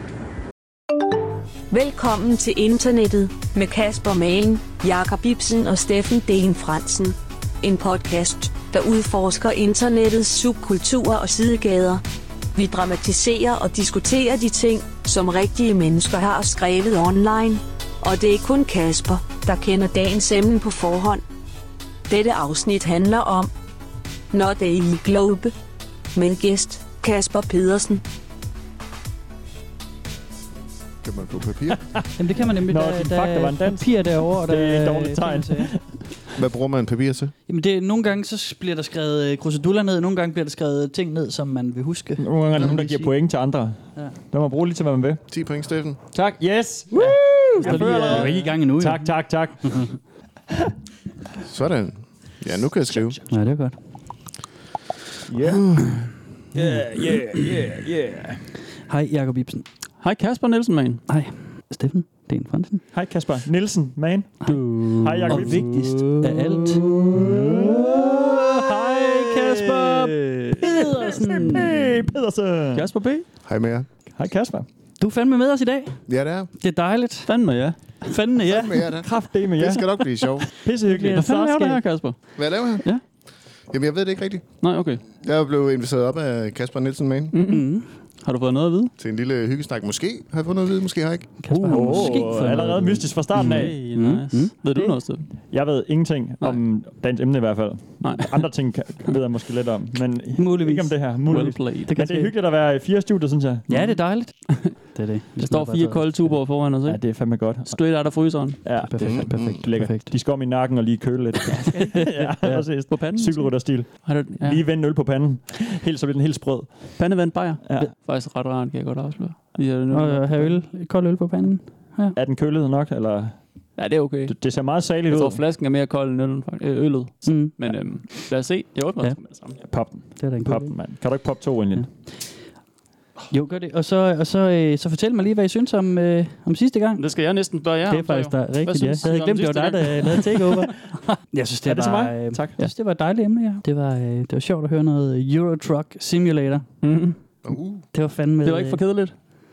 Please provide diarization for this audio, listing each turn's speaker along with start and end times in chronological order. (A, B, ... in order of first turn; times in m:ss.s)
0:01.7-0:12.0 A
0:12.6-0:21.2 A
0:22.1-0:23.5 A
0:24.3-0:25.5 A
0:26.2-0:28.0 A
0:31.0-0:31.9 B
0:31.7-0:36.0 C
0:32.2-0:35.8 D
0:36.3-0:37.3 B
0:37.5-0:43.1 D
0:42.2-0:45.2 C
0:45.3-0:46.0 B
0:46.1-0:49.9 C
0:46.9-0:49.9 D
0:47.6-0:48.3 E
0:51.4-0:53.2 B
0:53.2-0:53.8 D
0:55.3-0:56.0 C
0:55.7-0:56.8 D
0:56.5-0:58.5 C
0:58.9-0:59.6 D
1:00.0-1:01.0 E
1:01.1-1:02.8 D
1:02.9-1:05.7 C
1:04.4-1:11.9 D
1:05.2-1:06.3 E
1:06.9-1:12.9 C
1:12.7-1:13.3 E
1:13.4-1:13.9 B
1:14.1-1:14.7 C
1:15.0-1:17.3 D
1:16.1-1:16.5 B
1:17.3-1:18.1 E
1:18.0-1:18.9 D
1:18.5-1:20.5 B
1:19.0-1:21.2 C
1:20.9-1:21.8 D
1:21.1-1:23.0 E
1:22.4-1:22.8 B
1:23.7-1:24.5 B
1:24.6-1:25.0 E
1:25.2-1:27.3 B
1:27.3-1:27.7 E
1:27.3-1:27.9 D
1:28.2-1:28.9 E
1:29.0-1:31.4 B
1:31.4-1:35.0 D
1:31.5-1:33.8 C
1:31.7-1:32.1 E
1:33.4-1:35.3 E
1:35.5-1:43.7 C
1:38.0-1:38.5 E
1:40.4-1:41.0 D
1:41.3-1:42.2 E
1:41.9-1:42.3 D
1:43.7-1:46.4 D
1:45.4-1:48.6 E
1:46.9-1:48.0 C
1:48.6-1:57.0 C
1:48.7-1:50.2 D
1:49.0-1:49.6 B
1:51.6-1:54.6 E
1:52.4-1:52.8 D
1:57.0-2:00.6 E
1:57.6-1:57.9 C
1:59.9-2:02.2 D
2:02.2-2:05.4 C
2:03.8-2:09.6 E
2:07.2-2:08.1 D
2:09.6-2:11.9 C
2:10.2-2:10.9 D
2:13.3-2:17.0 D
2:17.0-2:20.7 E
2:17.9-2:26.7 D
2:21.6-2:22.6 C
2:26.8-2:27.2 E
2:27.4-2:27.8 B
2:27.9-2:28.8 D
2:28.4-2:29.1 E